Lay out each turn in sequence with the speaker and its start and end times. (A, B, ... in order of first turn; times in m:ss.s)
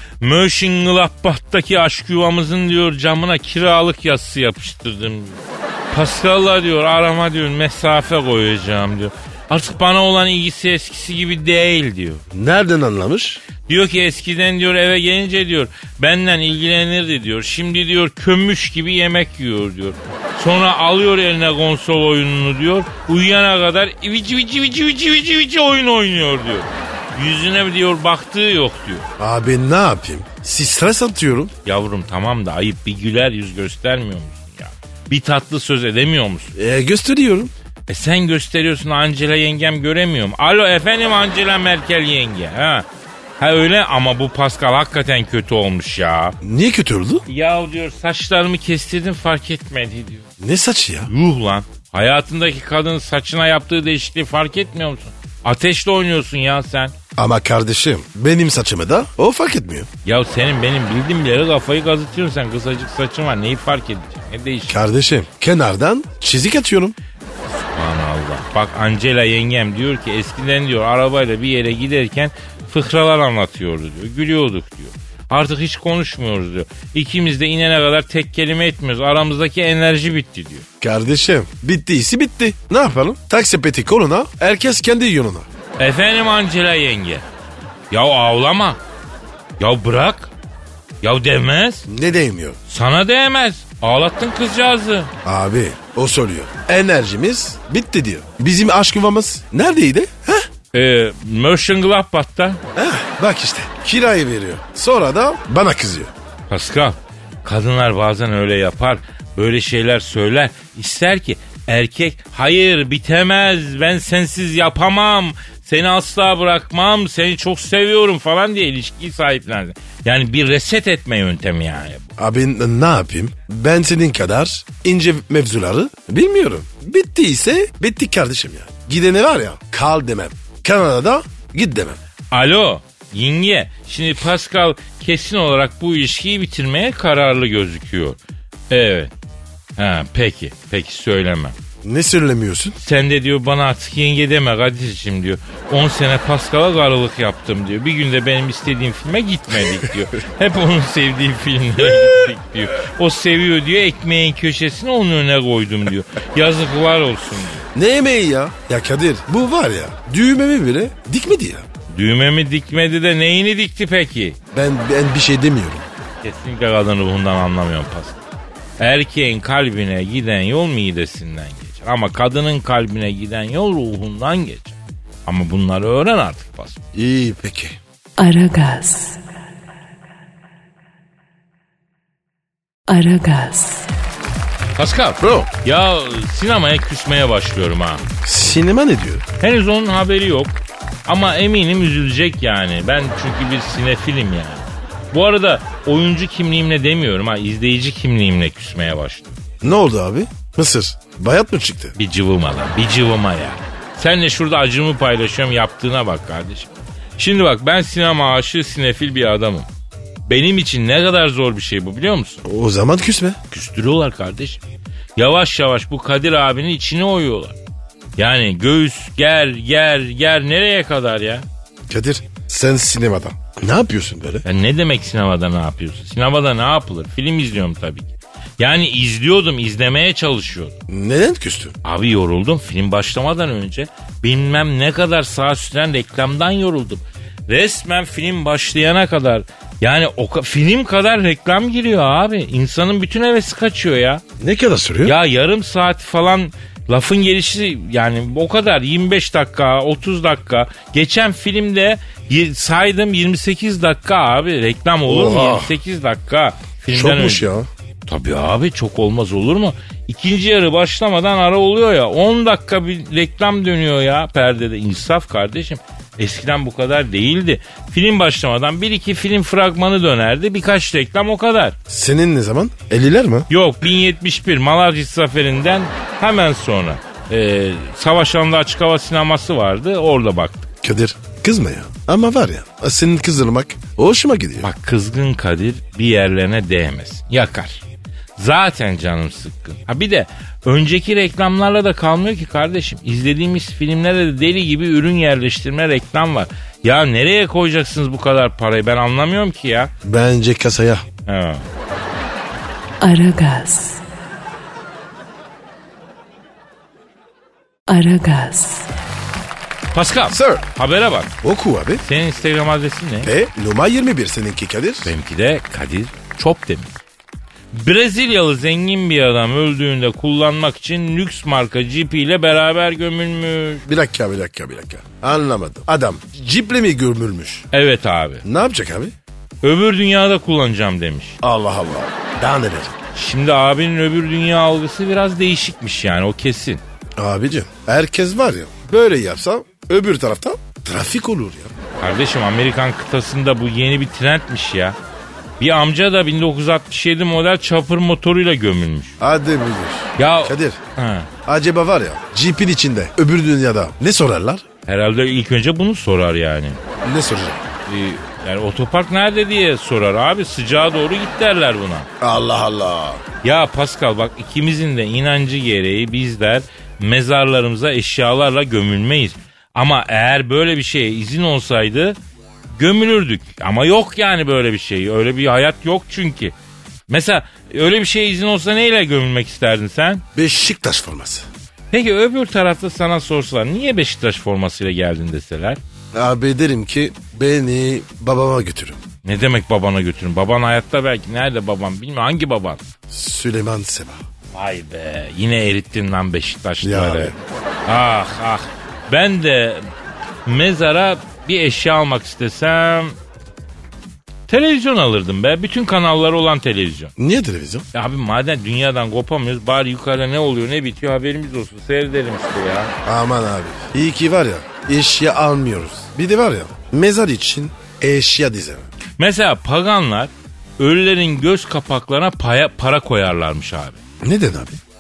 0:00.2-0:05.4 A
0:05.9-0:12.2 A
0:12.3-0:13.4 B
0:13.7-0:29.1 A
0:29.2-0:31.5 B
0:31.6-0:36.6 A
0:36.6-0:37.5 B
0:37.9-0:42.8 A
0:43.4-0:46.4 A
0:46.4-0:47.2 B
0:47.3-0:50.3 A
0:50.4-0:51.1 B
0:51.1-0:56.9 A
0:57.2-0:59.9 B
1:00.0-1:04.8 A
1:04.7-1:07.0 B
1:07.5-1:20.6 A
1:20.8-1:25.5 B
1:25.8-1:27.2 A
1:27.9-1:28.8 A
1:29.6-1:30.3 A
1:31.0-1:31.9 A
1:31.9-1:32.6 B
1:32.7-1:35.1 A
1:35.2-1:40.5 B
1:40.7-1:42.6 A
1:42.8-1:46.1 B
1:46.5-2:02.1 A
2:02.2-2:12.0 B
2:12.3-2:18.2 A
2:18.7-2:19.1 A
2:19.8-2:21.6 A
2:21.8-2:22.8 B
2:22.8-2:37.6 A
2:37.7-2:41.7 B
2:41.9-2:44.4 A
2:44.5-2:45.8 B
2:46.2-2:48.2 A
2:48.8-2:56.8 A
2:56.9-2:57.8 B
2:58.2-2:59.2 C
3:02.9-3:03.9 C
3:04.8-3:08.0 A
3:05.2-3:05.5 B
3:08.2-3:09.2 B
3:09.4-3:19.4 A
3:19.6-3:22.0 B
3:22.0-3:29.7 A
3:30.3-3:32.4 A
3:32.4-3:33.4 B
3:33.5-3:34.6 A
3:35.2-3:37.6 A
3:38.2-3:41.5 A
3:41.9-3:44.4 B
3:44.4-3:50.8 A
3:50.9-3:51.8 B
3:51.8-4:04.2 A
4:04.4-4:05.2 B
4:05.0-4:17.5 A
4:15.1-4:15.8 B
4:16.9-4:17.7 B
4:18.1-4:31.8 A
4:31.9-4:33.5 B
4:33.5-4:40.7 A
4:40.8-4:44.7 B
4:44.6-4:47.8 A
4:48.4-4:59.9 A
5:00.0-5:01.0 B
5:01.3-5:01.6 A
5:03.0-5:04.0 C
5:07.9-5:08.9 C
5:09.9-5:11.3 A
5:10.3-5:10.6 B
5:11.4-5:12.0 B
5:12.0-5:13.3 A
5:13.2-5:15.1 B
5:15.0-5:16.9 A
5:17.7-5:23.8 A
5:23.9-5:27.6 B
5:27.7-5:28.4 A
5:28.4-5:29.1 B
5:29.6-5:31.4 A
5:31.4-5:33.0 B
5:33.2-5:36.8 A
5:37.2-5:41.7 B
5:42.0-5:45.0 A
5:45.6-5:49.2 A
5:49.2-5:50.8 B
5:50.2-5:51.3 A
5:51.5-5:54.6 B
5:54.9-5:56.8 A
5:57.0-5:57.6 B
5:57.9-6:02.1 A
6:02.2-6:03.2 B
6:03.4-6:12.2 A
6:12.7-6:16.6 A
6:17.1-6:20.2 A
6:20.4-6:21.5 B
6:21.9-6:25.8 A
6:26.1-6:29.0 B
6:29.2-6:32.8 A
6:33.1-6:34.2 B
6:34.5-6:37.3 A
6:36.8-6:37.4 B
6:37.9-6:39.8 A
6:40.5-6:43.2 A
6:44.5-6:47.1 A
6:47.2-6:47.9 B
6:47.9-6:52.9 A
6:53.0-6:58.9 B
6:59.2-7:04.0 A
7:04.2-7:04.8 B